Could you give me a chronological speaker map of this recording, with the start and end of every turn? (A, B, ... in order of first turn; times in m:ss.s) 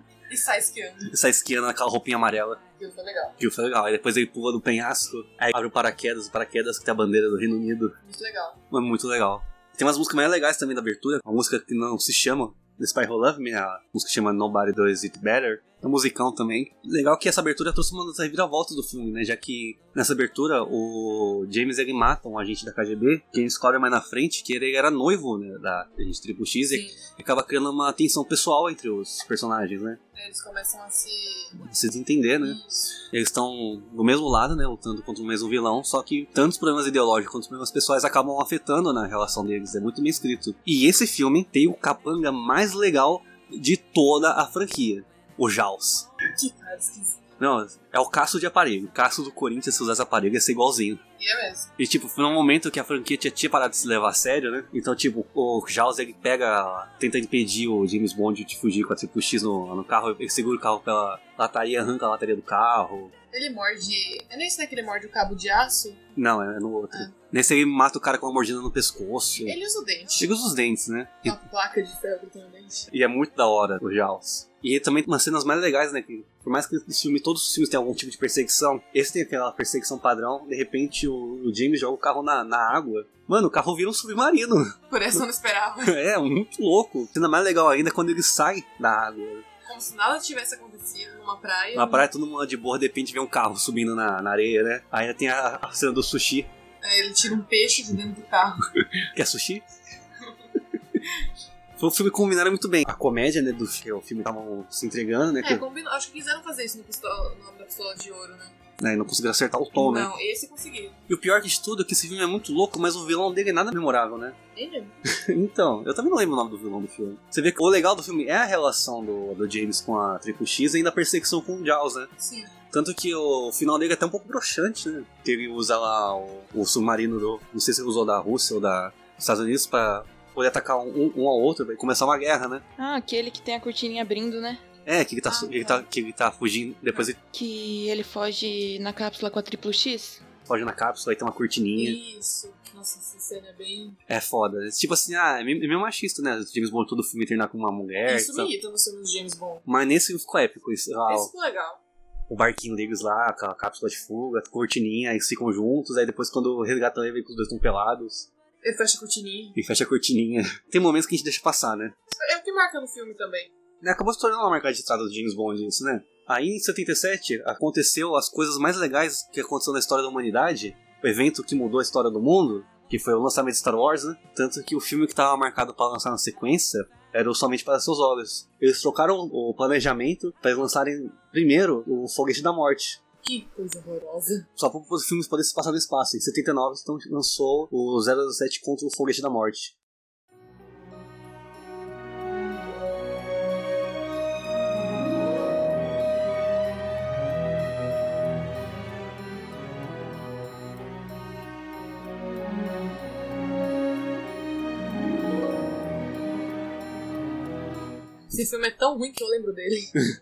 0:00.3-0:01.1 A
0:01.1-0:02.6 B
0:02.8-0:03.3 A
0:03.4-0:07.9 B
0:08.0-0:08.6 A
0:08.7-0:30.0 B
0:26.7-0:27.0 A
0:30.1-0:31.5 A
0:31.6-0:32.6 B
0:32.4-0:33.0 A
0:33.1-0:46.1 B
0:46.3-0:47.2 A
0:47.4-0:51.0 B
0:51.2-0:51.7 A
0:51.8-1:03.1 B
1:03.3-1:06.0 A
1:06.2-1:09.6 B
1:09.4-1:10.3 A
1:10.2-1:11.4 B
1:11.2-1:12.9 A
1:12.9-1:24.8 B
1:24.9-1:26.0 A
1:25.8-1:29.4 B
1:29.6-1:32.0 A
1:31.7-1:36.5 B
1:36.8-1:38.6 A
1:39.1-1:39.6 B
1:41.8-1:45.6 B
1:45.4-1:48.6 A
1:48.8-1:50.1 B
1:49.7-1:51.0 A
1:51.1-1:54.4 B
1:54.5-1:55.0 A
1:55.0-2:02.1 B
2:02.2-2:02.5 A
2:02.7-2:12.6 B
2:12.8-2:14.6 C
2:14.8-2:17.2 B
2:15.3-2:15.8 A
2:17.3-2:20.2 C
2:20.5-2:22.0 B
2:21.8-2:24.0 A
2:24.1-2:28.5 B
2:28.0-2:29.6 A
2:29.6-2:31.3 B
2:31.1-2:31.8 A
2:32.3-2:38.3 B
2:38.6-2:39.5 A
2:39.5-2:41.9 B
2:42.1-2:43.5 A
2:43.8-3:03.0 B
3:03.2-3:04.4 A
3:04.6-3:09.7 B
3:28.3-3:29.9 A